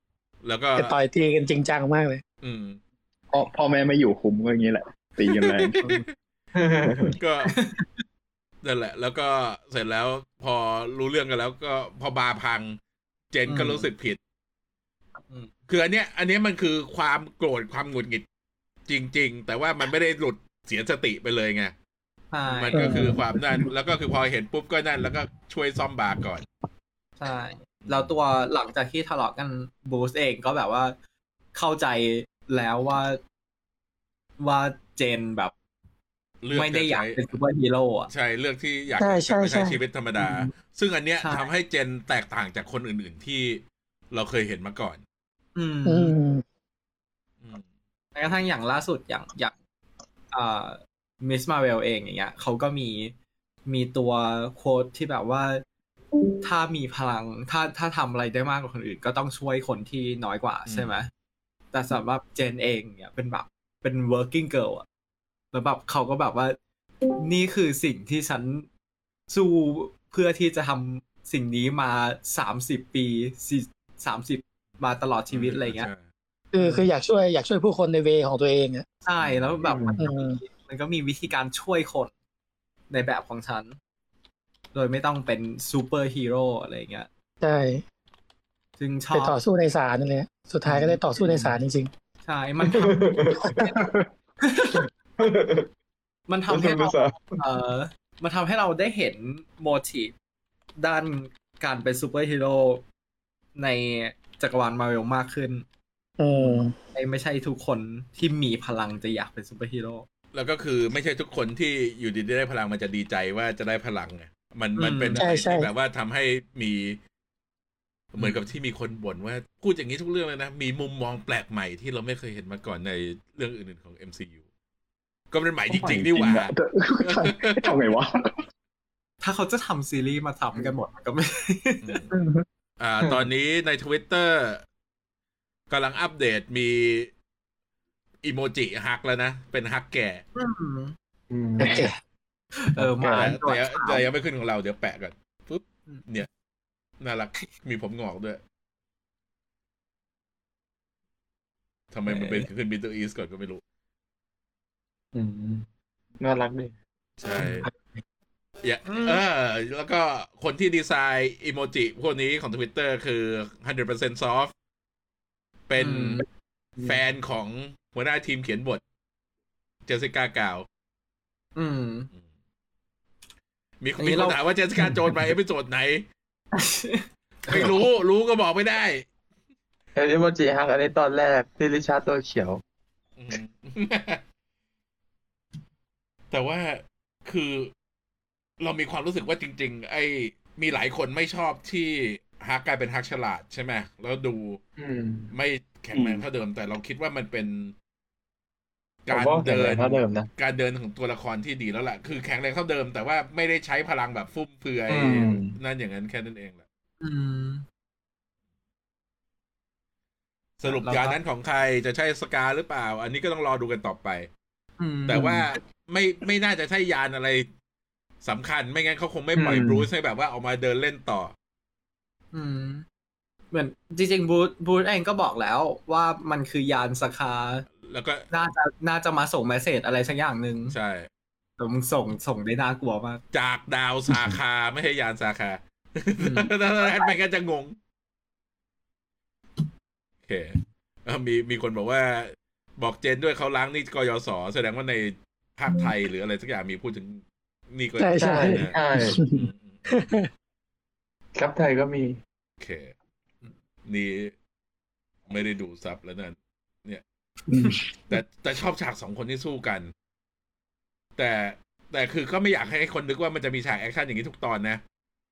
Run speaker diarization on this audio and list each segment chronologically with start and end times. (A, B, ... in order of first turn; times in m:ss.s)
0:00.4-0:01.0 A
0:00.8-0:02.2 B
0:02.4-0:02.8 A
0:03.3-0:05.8 C
0:05.3-0:06.1 A
0:06.6-0:07.1 D
0:07.2-0:07.6 A
0:07.5-0:08.0 E
0:08.6-0:12.8 A
0:13.3-0:14.2 A
0:13.5-0:13.9 E
0:15.7-0:18.2 A
0:18.9-0:21.7 A
0:22.3-0:22.9 E
0:22.5-0:26.4 A
0:22.7-0:23.2 F
0:27.2-0:30.9 E
0:27.8-0:28.1 A
0:31.5-0:33.2 E
0:34.4-0:35.5 E
0:36.4-0:37.3 A
0:36.5-0:38.1 E
0:38.1-0:45.0 A
0:39.0-0:39.8 B
0:40.2-0:40.5 E
0:41.2-0:41.5 E
0:45.6-0:46.1 E
0:45.8-0:46.4 B
0:48.1-0:49.5 E
0:50.3-0:53.1 E
0:53.6-0:55.6 E
0:56.4-1:01.1 E
1:00.7-1:01.0 A
1:01.7-1:04.8 E
1:05.5-1:06.6 E
1:07.2-1:08.7 E
1:09.3-1:15.9 E
1:15.3-1:16.0 A
1:16.5-1:18.8 B
1:16.6-1:16.8 E
1:19.0-1:22.1 E
1:19.2-1:19.6 A
1:19.7-1:19.9 F
1:20.0-1:20.4 B
1:22.9-1:23.8 E
1:24.7-1:27.1 E
1:27.4-1:27.8 B
1:28.8-1:29.3 E
1:29.1-1:31.9 B
1:30.7-1:31.6 D
1:32.2-1:33.0 E
1:32.7-1:33.6 D
1:33.5-1:33.7 B
1:33.6-1:33.9 C
1:34.4-1:34.8 E
1:35.2-1:35.7 D
1:36.3-1:40.1 E
1:36.5-1:37.4 D
1:40.8-1:42.8 E
1:43.6-1:45.6 E
1:46.2-1:46.7 B
1:46.9-1:50.0 E
1:50.3-1:57.0 A
1:54.8-1:55.3 E
1:55.2-1:55.7 B
1:58.1-2:04.4 A
2:05.3-2:07.7 A
2:05.7-2:06.2 E
2:06.0-2:08.1 C
2:09.2-2:11.8 E
2:11.8-2:12.1 A
2:12.8-2:14.6 A
2:15.7-2:17.1 A
2:18.2-2:20.2 A
2:20.3-2:20.9 E
2:21.3-2:21.7 F
2:21.6-2:22.0 B
2:22.6-2:24.0 E
2:22.8-2:23.2 F
2:23.1-2:26.3 A
2:27.0-2:28.4 A
2:31.9-2:33.6 A
2:32.1-2:32.5 E
2:35.1-2:35.6 F
2:36.2-2:36.7 D
2:37.2-2:37.6 A
2:38.6-2:44.5 A
2:38.8-2:39.2 E
2:45.7-2:46.2 A
2:45.8-2:46.2 E
2:46.8-2:48.8 A
2:49.9-2:50.6 A
2:51.6-2:52.1 E
2:53.8-2:56.0 A
2:54.0-2:54.4 E
2:56.5-2:57.7 E
2:57.5-2:59.0 A
3:00.0-3:02.6 D
3:03.2-3:04.2 A
3:06.3-3:07.7 A
3:08.6-3:14.6 A
3:14.8-3:15.3 D
3:15.3-3:17.7 A
3:19.0-3:26.6 A
3:19.1-3:20.3 D
3:24.9-3:25.6 D
3:27.0-3:27.6 E
3:30.6-3:34.3 A
3:30.6-3:31.2 E
3:34.8-3:35.3 E
3:35.1-3:37.5 A
3:38.2-3:41.3 A
3:39.4-3:39.8 D
3:42.3-3:42.8 E
3:43.5-3:47.6 E
3:47.8-3:48.2 A
3:48.3-3:50.7 E
3:50.7-3:51.1 A
3:51.6-3:53.2 E
3:53.3-3:57.8 A
3:56.2-3:57.1 E
4:00.3-4:09.8 A
4:08.0-4:10.3 B
4:08.2-4:09.2 D
4:11.4-4:12.2 D
4:12.6-4:12.9 A
4:13.8-4:14.3 A
4:15.3-4:17.0 A
4:17.5-4:17.8 C
4:18.1-4:19.9 A
4:21.2-4:24.8 A